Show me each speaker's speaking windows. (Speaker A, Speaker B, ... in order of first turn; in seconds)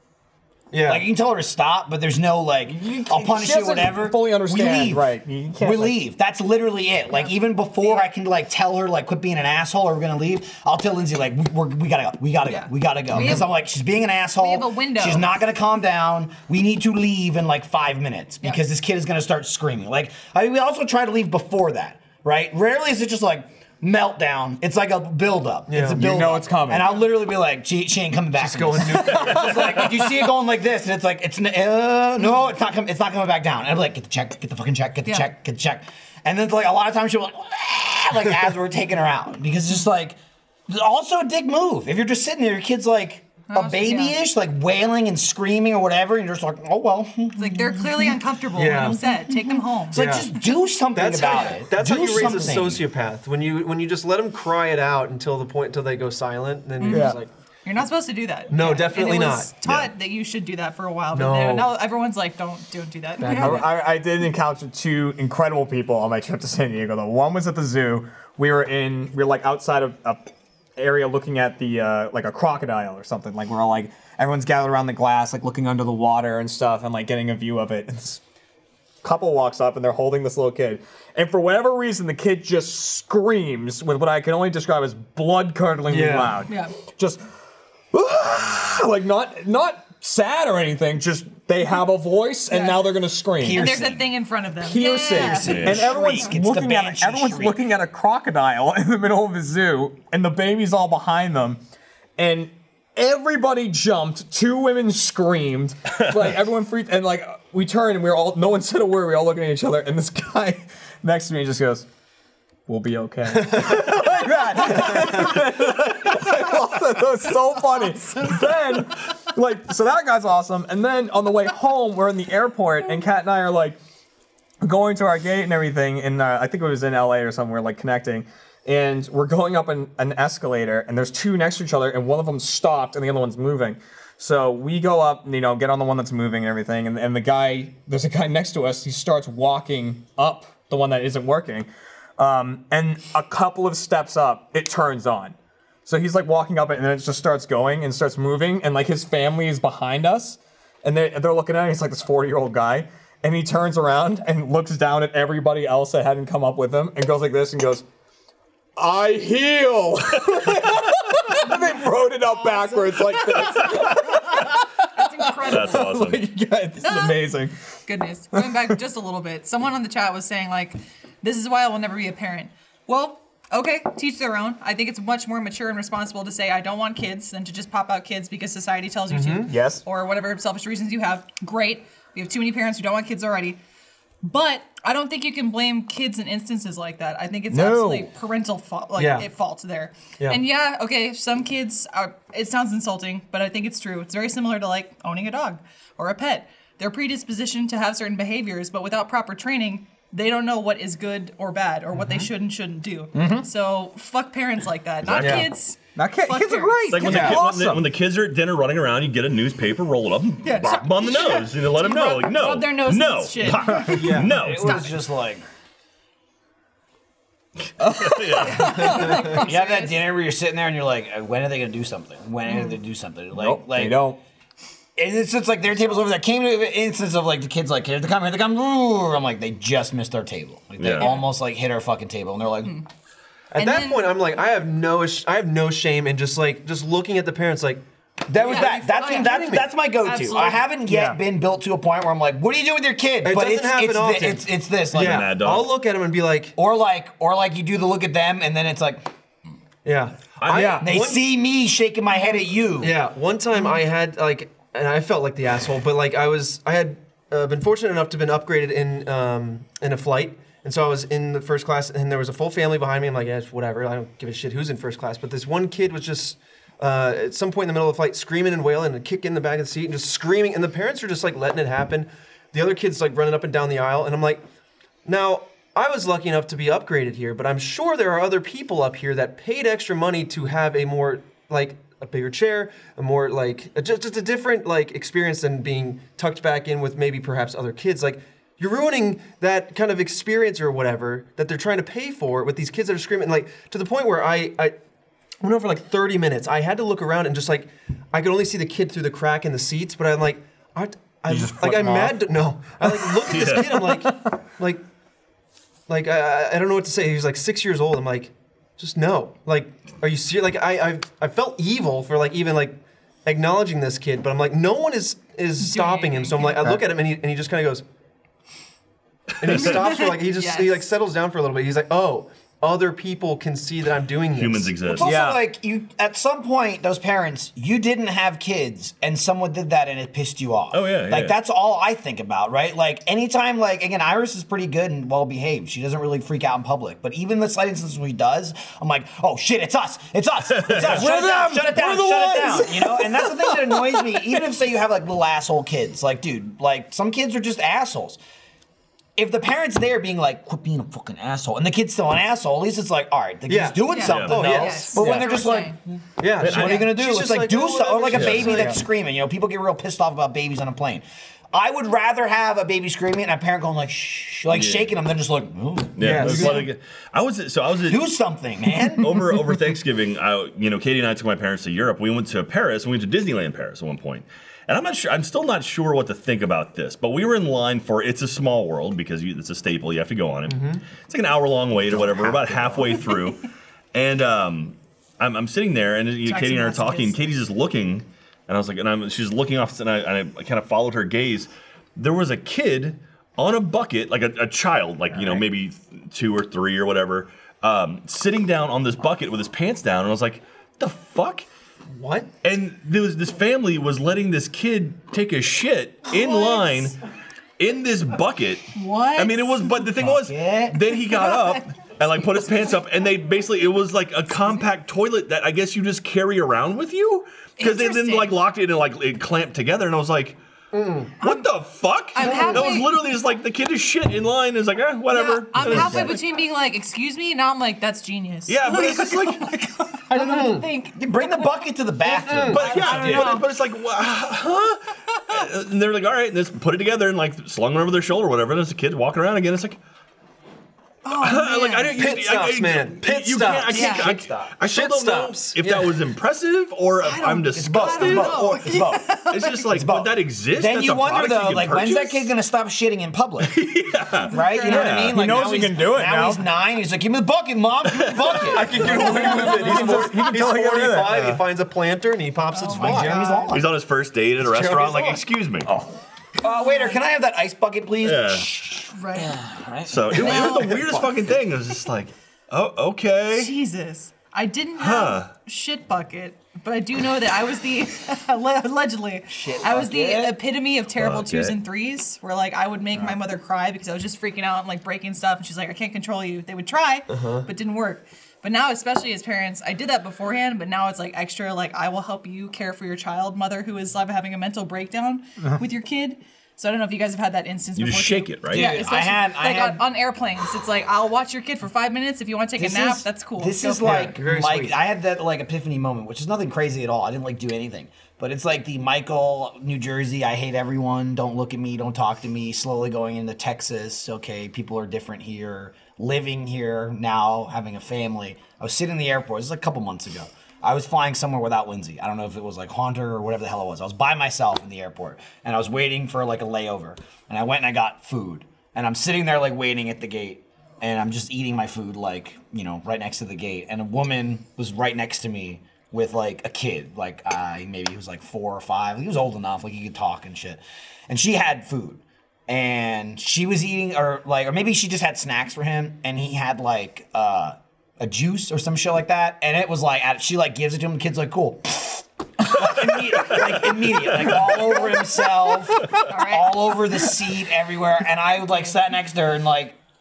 Speaker A: 0.7-1.1, 25.7-26.0, 28.4-29.9, 48.5-49.1, 49.9-50.3, 51.0-57.3, 58.5-59.5, 61.1-61.7, 63.2-63.6, 85.9-86.4, 113.5-114.2, 114.7-115.3, 179.1-179.5, 189.0-189.3, 201.9-202.3, 205.2-205.5, 207.0-207.4, 213.9-214.3, 218.8-219.5, 233.5-237.8, 238.3-239.7, 243.2-246.6, 249.8-251.2, 252.8-274.4, 275.1-294.7, 295.4-304.8, 305.9-317.8, 319.4-324.8, 353.5-355.0, 356.2-358.8, 366.0-366.7, 380.5-380.8, 401.9-402.3, 420.7-421.2, 422.2-422.7, 430.1-430.7, 432.2-432.7, 442.0-443.9, 444.6-446.0, 458.4-463.6, 464.4-465.2, 487.1-487.5, 503.8-504.8
Speaker B: 0.9-40.2, 40.7-48.2, 49.3-52.8, 93.4-94.1, 95.1-97.6, 214.0-215.4, 219.1-224.1, 225.0-232.8, 238.3-245.3, 246.6-249.1, 250.8-252.9, 324.9-348.2, 349.2-355.8, 356.4-366.6, 367.9-369.2, 410.0-410.8, 425.6-426.2, 430.9-433.4, 443.7-444.5, 447.5-449.1, 449.7-453.6, 454.3-459.1, 462.8-463.7, 466.4-471.1, 479.3-480.4, 498.5-499.8, 502.6-559.8
Speaker C: 2.7-6.0, 25.9-27.0, 56.9-57.2, 63.2-78.2, 79.0-87.2, 87.9-93.7, 94.6-101.6, 102.2-111.9, 112.7-123.8, 124.6-145.3, 145.9-157.8, 158.8-167.5, 168.3-168.8, 179.5-179.8, 187.5-188.1, 203.1-203.5, 206.0-207.9, 217.8-219.0, 223.3-224.2, 240.9-241.2, 250.5-250.9, 301.3-302.2, 302.8-304.3, 325.0-325.4, 340.8-344.5, 355.0-355.3, 455.0-456.4, 458.8-461.4
Speaker D: 7.1-8.1, 12.4-13.6, 14.4-15.3, 43.5-44.2, 47.4-50.2, 56.8-63.6, 86.5-86.8, 92.5-92.8, 93.5-96.3, 162.2-165.9, 166.8-167.2, 167.9-183.6, 184.2-207.1, 210.4-214.9, 218.5-220.1, 222.5-222.8, 231.0-231.3, 233.6-234.2, 238.4-239.5, 240.0-240.7, 315.6-316.7, 319.5-320.8, 353.9-355.8, 386.2-387.2, 406.1-406.9, 408.8-409.9, 411.1-411.6, 417.6-418.4, 421.2-421.5, 422.1-423.0, 425.1-431.6, 432.1-433.5, 441.1-442.0, 443.7-444.1, 447.0-449.8, 454.2-455.1, 462.5-463.2, 466.4-467.0, 468.9-469.4, 470.2-470.7, 473.3-504.1, 555.9-556.8
Speaker E: 59.6-59.9, 95.4-95.9, 165.4-166.2, 205.0-205.5, 206.9-214.8, 217.9-219.1, 230.8-231.1, 244.9-245.7, 250.4-250.7, 303.3-303.8, 324.3-325.1, 330.7-331.4, 340.6-341.0, 354.1-354.6, 356.4-356.9, 358.1-358.7, 364.5-364.9, 366.0-368.0, 369.0-401.5, 402.4-407.0, 407.6-420.4, 421.2-426.2, 428.5-429.5, 432.5-439.8, 441.1-448.6, 449.3-452.3, 453.4-455.2, 457.9-458.9, 463.5-465.7, 468.0-468.5, 469.9-473.5, 474.8-475.3, 480.9-481.6, 497.8-498.7, 553.1-554.9